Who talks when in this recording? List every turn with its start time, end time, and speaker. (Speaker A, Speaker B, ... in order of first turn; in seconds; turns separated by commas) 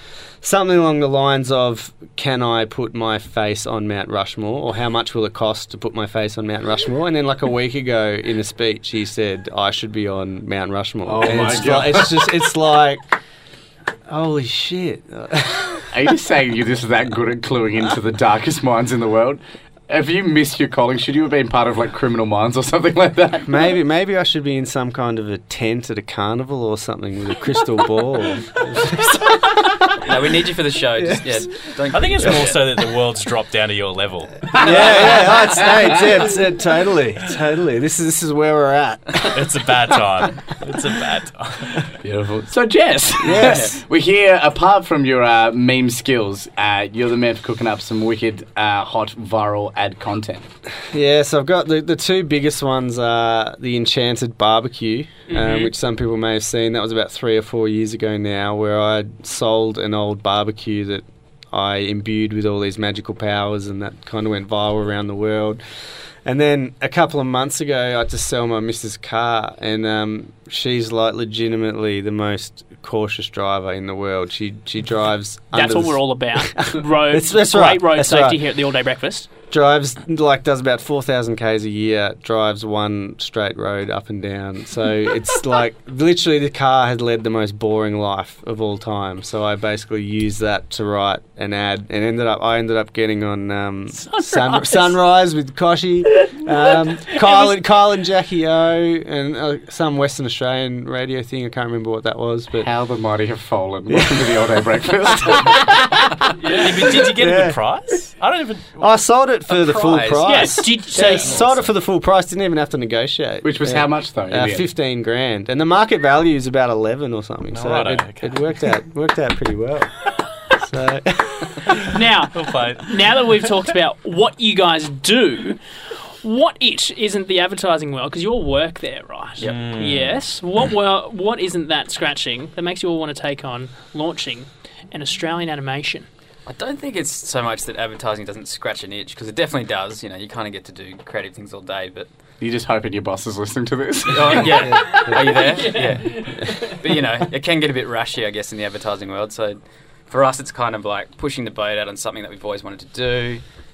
Speaker A: 0.4-13.1, Speaker B: 11.1-12.3, Speaker A: 14.1-15.9, Speaker B: 15.9-23.5, Speaker A: 23.4-29.9, Speaker C: 30.0-32.6, Speaker A: 31.0-31.5, Speaker D: 31.9-35.0, Speaker B: 34.5-34.8, Speaker A: 34.6-39.5, Speaker D: 39.3-41.9, Speaker B: 42.0-50.5, Speaker A: 43.2-43.8, Speaker C: 43.4-43.8, Speaker A: 50.8-65.6, Speaker E: 55.3-55.7, Speaker A: 66.2-78.4, Speaker E: 75.5-79.3, Speaker A: 79.5-102.7, Speaker E: 93.9-95.0, Speaker E: 96.3-97.5, Speaker B: 102.6-105.7, Speaker A: 103.9-104.5, Speaker A: 105.1-105.8, Speaker D: 106.4-108.9, Speaker A: 107.0-107.6, Speaker A: 108.8-121.6, Speaker C: 109.5-111.7, Speaker E: 110.2-111.4, Speaker B: 113.4-114.7, Speaker D: 117.5-118.5, Speaker E: 121.9-125.6, Speaker D: 122.3-123.2, Speaker E: 126.2-136.1, Speaker D: 129.4-130.2, Speaker C: 136.5-142.1, Speaker B: 142.4-144.7, Speaker C: 144.1-153.4, Speaker A: 144.7-145.2, Speaker E: 144.9-146.8